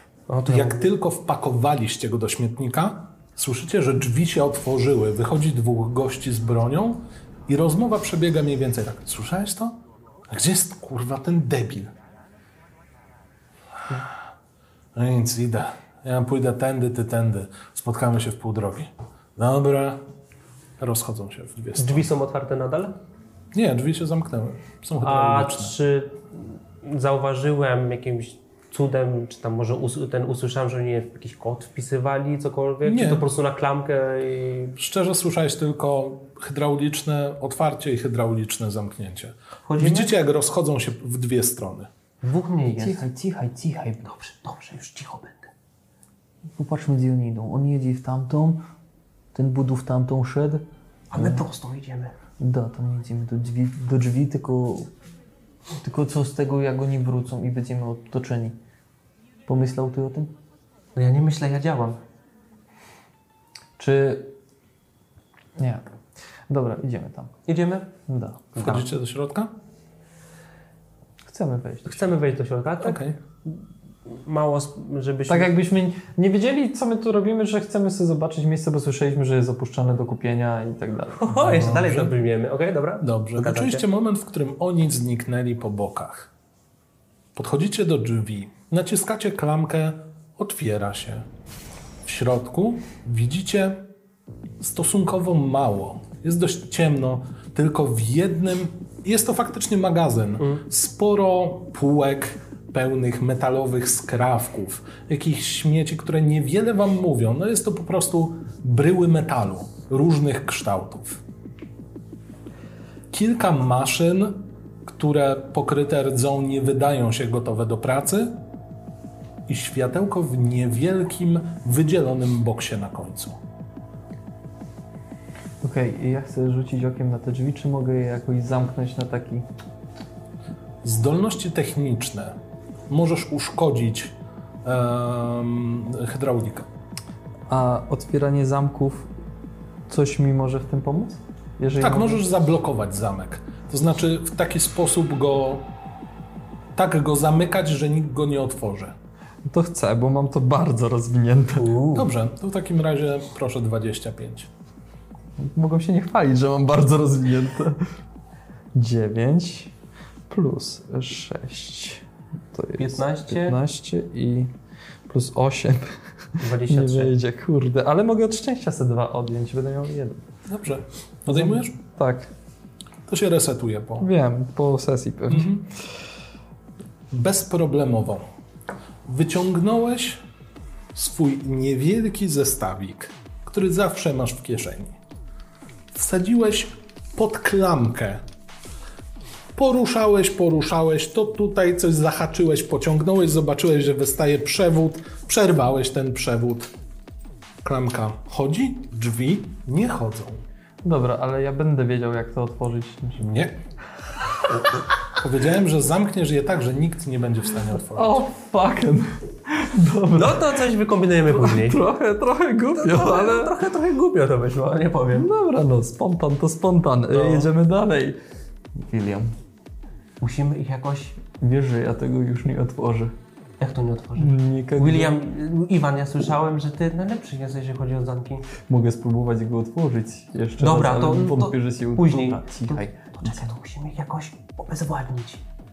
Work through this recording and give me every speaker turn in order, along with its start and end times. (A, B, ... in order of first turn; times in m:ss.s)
0:00.3-0:00.9 A
0:00.5-0:09.8 B
0:10.3-0:11.9 B
0:15.0-0:20.0 B
0:20.8-0:22.1 B
0:21.8-0:23.0 A
0:23.5-0:25.8 B
0:25.0-0:34.8 A
0:32.8-0:33.3 B
0:34.8-0:41.9 B
0:39.7-0:40.1 A
0:42.2-0:43.0 A
0:42.8-0:44.2 C
0:44.0-0:45.5 A
0:46.6-0:48.6 C
0:49.3-0:51.4 C
0:51.1-0:52.1 A
0:52.4-0:54.9 C
0:55.8-0:58.6 C
0:59.5-1:00.3 C
1:01.0-1:02.0 A
1:03.8-1:04.3 C
1:05.6-1:05.8 C
1:06.5-1:07.3 C
1:07.5-1:07.9 A
1:08.1-1:08.8 C
1:08.6-1:09.5 B
1:11.2-1:12.1 C
1:11.8-1:15.5 A
1:12.8-1:13.2 B
1:15.3-1:22.0 C
1:21.2-1:23.8 A
1:21.5-1:22.1 B
1:23.0-1:26.3 B
1:27.4-1:31.3 B
1:32.0-1:33.9 B
1:34.6-1:51.2 B
1:53.1-1:58.4 B
1:59.5-2:03.4 B
2:05.6-2:09.5 C
2:10.8-2:12.4 B
2:12.9-2:14.1 B
2:14.6-2:16.7 B
2:17.5-2:19.1 C
2:19.9-2:22.2 C
2:21.8-2:25.7 B
2:26.8-2:29.0 B
2:29.4-2:32.0 C
2:31.6-2:32.0 A
2:31.9-2:34.5 B
2:35.4-2:37.8 C
2:38.8-2:39.7 C
2:40.3-2:44.5 C
2:42.8-2:43.6 A
2:45.1-2:50.2 C
2:46.4-2:47.1 A
2:50.5-2:51.7 B
2:51.3-2:52.3 C
2:53.1-2:54.1 B
2:54.0-2:55.6 C
2:55.3-2:55.7 B
2:57.1-2:58.2 B
2:59.1-3:00.2 B
3:01.0-3:05.0 B
3:05.9-3:08.2 B
3:09.6-3:16.7 B
3:17.6-3:20.4 B
3:20.8-3:23.4 C
3:23.2-3:23.6 B
3:25.2-3:28.2 B
3:27.9-3:30.5 C
3:30.2-3:31.8 A
3:31.3-3:33.5 C
3:32.8-3:35.3 A
3:35.1-3:38.2 C
3:37.1-3:37.5 A
3:38.8-3:39.4 C
3:40.2-3:41.2 A
3:41.4-3:43.1 C
3:43.6-3:48.5 A
3:44.2-3:45.1 C
3:48.7-3:53.5 C
3:50.6-3:55.4 A